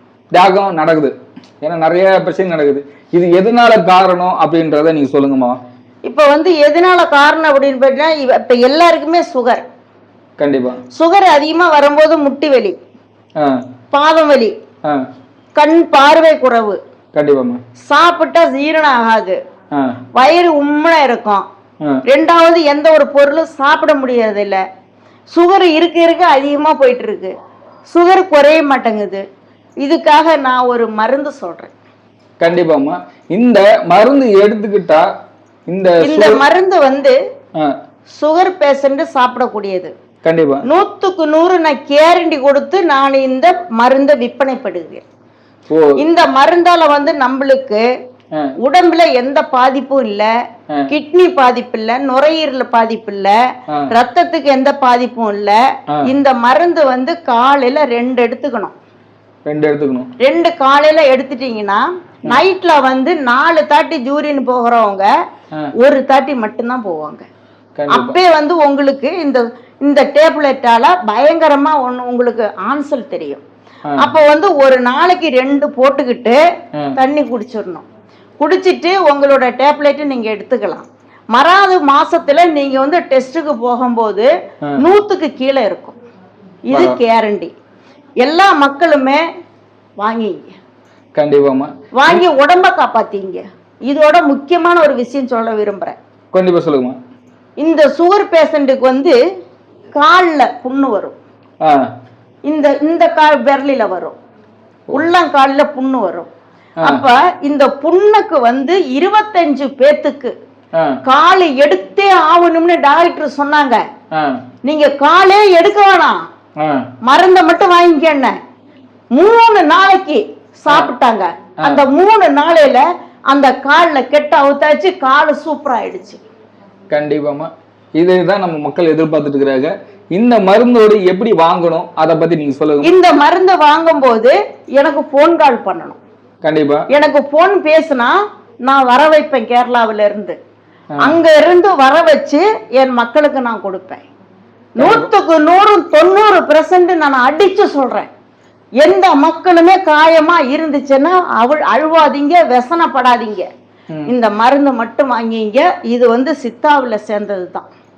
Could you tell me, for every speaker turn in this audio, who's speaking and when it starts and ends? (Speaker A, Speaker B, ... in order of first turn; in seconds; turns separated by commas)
Speaker A: 0.3-5.6, Speaker B: 6.0-9.6, Speaker A: 10.4-10.8, Speaker B: 10.9-12.8, Speaker B: 13.9-14.5, Speaker B: 15.6-16.8, Speaker A: 17.1-17.6, Speaker B: 17.9-19.4, Speaker B: 20.1-21.4, Speaker B: 22.1-24.6, Speaker B: 25.3-27.3, Speaker B: 27.9-29.2, Speaker B: 29.8-31.7, Speaker A: 32.4-35.0, Speaker A: 35.7-36.4, Speaker B: 36.0-37.1, Speaker B: 38.1-39.9, Speaker A: 40.2-40.6, Speaker B: 40.6-45.0, Speaker A: 45.7-45.9, Speaker B: 46.0-47.8, Speaker B: 48.6-50.3, Speaker B: 50.9-53.3, Speaker B: 53.9-58.7, Speaker A: 59.5-60.1, Speaker B: 60.2-65.0, Speaker B: 65.8-67.2, Speaker A: 67.8-68.2, Speaker B: 67.9-73.4, Speaker B: 74.0-76.4, Speaker B: 77.0-77.8, Speaker B: 78.4-84.3, Speaker B: 84.8-86.0, Speaker B: 86.7-87.5, Speaker A: 86.7-87.0, Speaker B: 88.2-89.2, Speaker B: 90.0-90.5, Speaker A: 91.1-92.2, Speaker B: 92.0-96.0, Speaker A: 96.3-97.0, Speaker B: 97.6-99.2, Speaker B: 100.0-101.1, Speaker B: 102.5-104.2, Speaker B: 104.9-106.3, Speaker B: 106.8-110.3, Speaker B: 111.0-113.8, Speaker A: 114.1-114.4, Speaker B: 114.6-116.2, Speaker B: 117.0-118.3, Speaker B: 119.1-126.2, Speaker A: 126.9-132.9, Speaker B: 132.8-136.0, Speaker A: 136.4-136.8, Speaker B: 136.9-138.1, Speaker B: 138.6-140.4, Speaker B: 141.0-144.0, Speaker B: 144.8-148.1, Speaker A: 144.8-145.1, Speaker B: 148.8-153.5, Speaker B: 154.1-157.7